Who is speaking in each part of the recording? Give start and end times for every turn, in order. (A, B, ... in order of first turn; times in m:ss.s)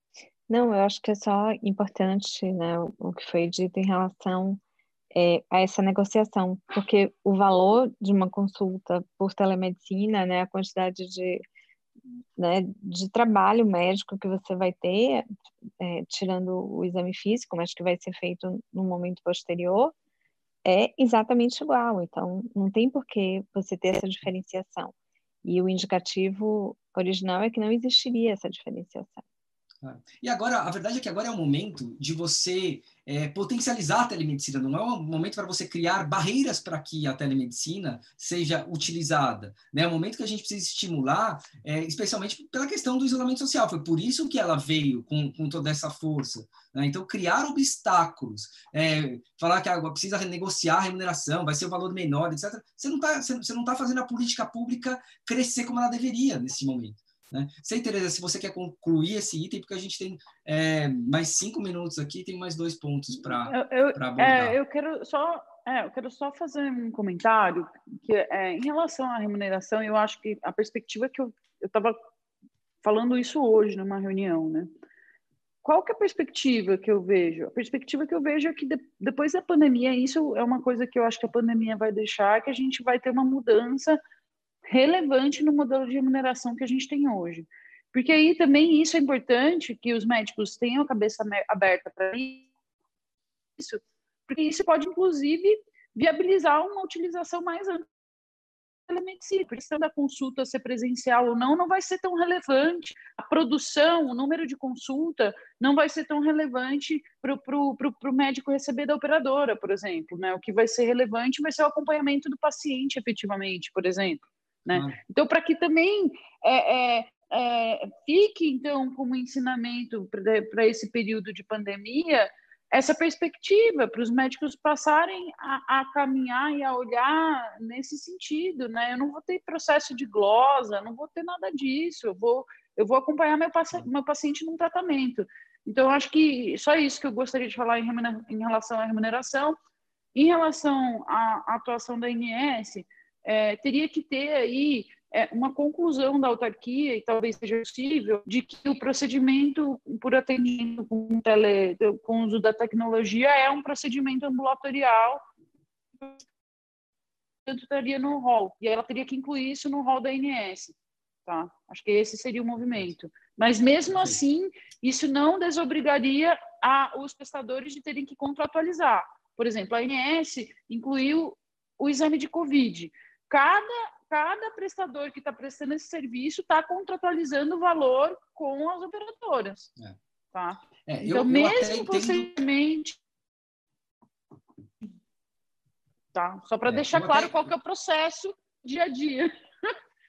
0:00.5-0:04.6 A
0:05.1-0:11.4 A
0:12.4-0:15.3 A
0:15.8-0:19.9 A
0:20.6-0:24.9 A
0:25.4-0:29.2 A
0:29.8-1:04.6 B
1:03.5-1:12.0 C
1:12.8-1:14.7 C
1:15.6-1:24.0 C
1:24.7-1:32.5 C
1:33.6-1:37.9 C
1:38.9-2:19.6 C
1:54.7-1:55.0 B
2:20.2-2:35.2 C
2:37.5-2:40.8 C
2:41.3-2:59.7 C
2:43.9-2:44.2 B
3:00.3-3:03.0 C
3:00.9-3:02.3 B
3:06.2-3:09.7 C
3:06.7-3:07.4 B